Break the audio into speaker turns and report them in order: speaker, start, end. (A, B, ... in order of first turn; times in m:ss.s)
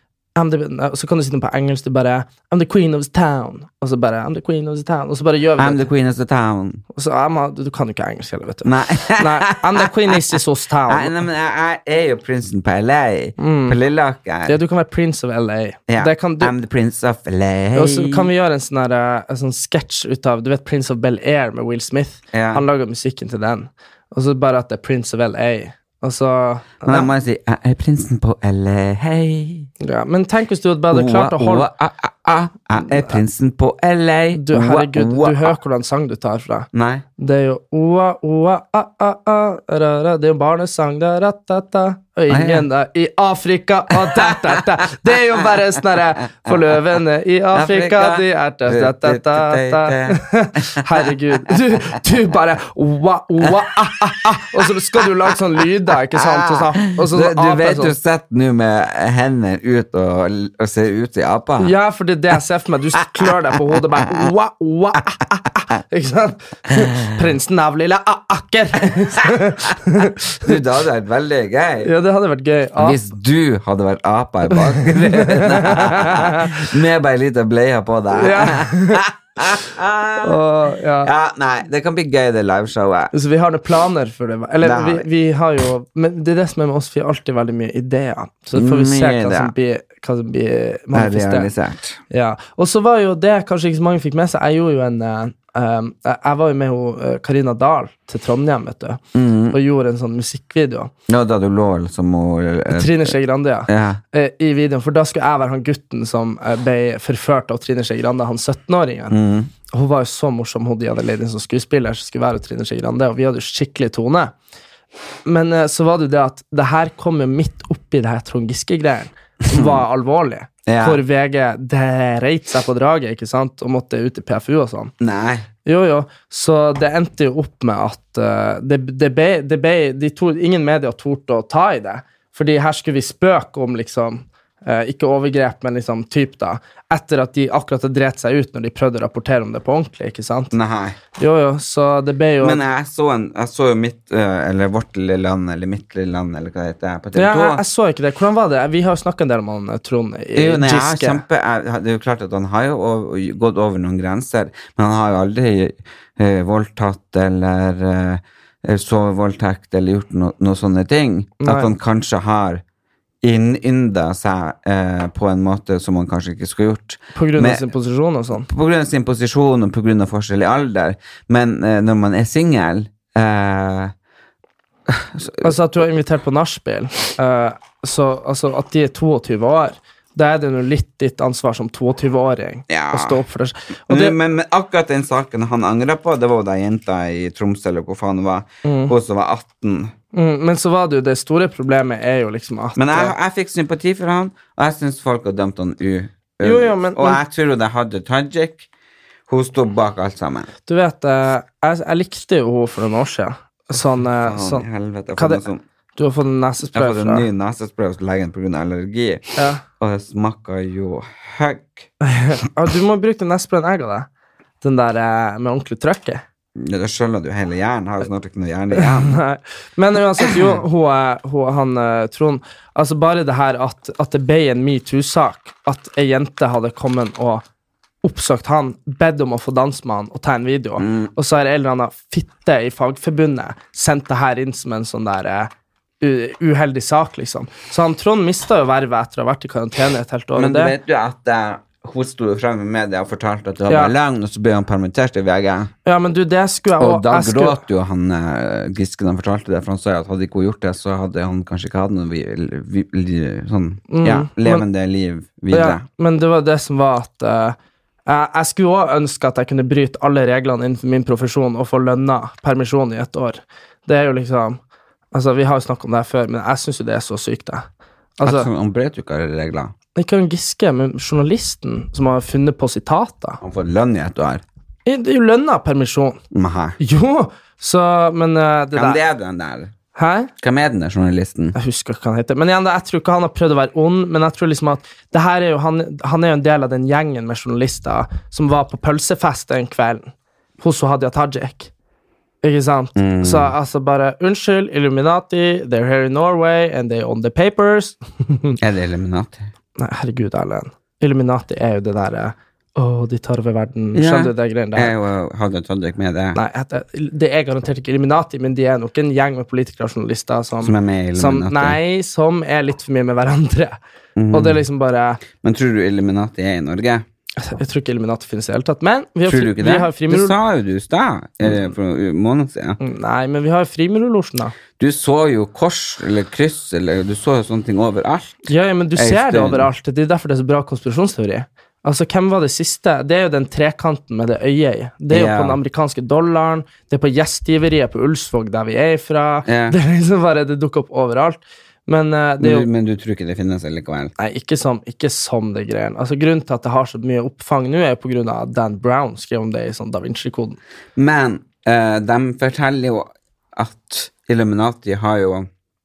0:00.4-0:05.8 A
0:05.6-0:06.8 B
0:06.9-0:11.2 A
0:08.6-0:10.4 B
0:10.9-0:14.6 B
0:13.4-0:13.8 A
0:14.4-0:16.5 A
0:15.9-0:18.3 B
0:17.7-0:27.1 A
0:22.3-0:22.6 B
0:26.8-0:29.7 B
0:29.8-0:31.7 A
0:30.9-0:35.5 B
0:32.9-0:33.2 A
0:34.3-0:57.9 A
0:36.7-0:37.0 B
0:42.3-0:42.7 B
0:43.9-0:44.6 B
0:47.5-0:51.1 B
0:53.4-0:55.0 B
0:56.2-1:01.7 B
1:01.6-1:10.6 A
1:10.4-1:11.9 B
1:11.8-1:13.0 A
1:12.8-1:20.4 B
1:14.5-1:16.6 A
1:18.1-1:19.0 A
1:20.2-1:21.1 A
1:21.0-1:23.1 B
1:23.1-1:31.5 A
1:24.6-1:25.0 B
1:28.5-1:29.5 B
1:30.9-1:32.0 B
1:32.1-1:39.0 A
1:39.1-1:39.6 B
1:39.5-1:40.9 A
1:41.1-1:43.1 B
1:42.7-1:49.2 A
1:43.7-1:44.0 B
1:49.1-1:49.5 B
1:49.7-1:54.3 A
1:55.2-2:04.9 A
1:59.5-1:59.8 B
2:00.7-2:01.0 B
2:05.0-2:05.5 B
2:05.6-2:20.5 A
2:20.5-2:21.0 B
2:21.2-2:22.6 A
2:22.4-2:27.6 B
2:27.1-2:31.2 A
2:30.3-2:42.6 B
2:41.4-2:41.7 A
2:43.2-2:47.6 B
2:47.1-2:48.5 A
2:48.3-2:53.9 B
2:54.9-2:55.5 B
2:55.4-3:04.2 A
3:02.7-3:03.2 B
3:03.9-3:09.9 B
3:08.6-3:08.9 A
3:10.1-3:13.1 A
3:12.8-3:18.7 B
3:16.4-3:17.2 A
3:19.3-3:20.5 B
3:20.7-3:25.4 A
3:24.2-3:25.6 B
3:26.0-3:27.3 A
3:26.7-3:31.9 B
3:29.4-3:29.6 A
3:32.0-3:34.1 A
3:34.6-3:36.2 A
3:36.6-3:39.2 B
3:38.8-3:47.4 A
3:48.0-4:00.7 A
3:50.8-3:51.1 B
4:00.3-4:05.7 B
4:03.7-4:03.9 A
4:05.8-4:07.6 A
4:06.8-4:15.8 B
4:13.9-4:14.6 A
4:15.5-4:17.6 A
4:18.1-4:24.6 A
4:25.1-4:27.6 A
4:28.2-4:28.5 A
4:28.2-4:29.7 B
4:30.0-4:33.4 A
4:33.4-4:34.4 B
4:34.8-4:36.2 A
4:36.3-4:36.8 B
4:36.8-4:39.0 A
4:38.7-4:39.7 B
4:39.9-4:40.3 A
4:40.4-4:41.6 B
4:41.5-4:51.7 A
4:52.4-4:58.6 A
4:53.0-4:53.5 B
4:58.6-4:59.5 B
4:59.8-5:04.9 A
5:03.9-5:06.4 B
5:06.3-5:13.8 A
5:10.6-5:11.8 B
5:14.2-5:14.6 B
5:14.3-5:15.2 A
5:15.3-5:17.0 B
5:17.4-5:20.4 A
5:19.2-5:22.8 B
5:22.8-5:24.6 A
5:24.8-5:29.7 B
5:28.4-5:42.7 A
5:35.1-5:35.6 B
5:39.4-5:39.8 B
5:42.4-5:44.1 B
5:44.2-5:50.6 A
5:51.0-5:55.5 B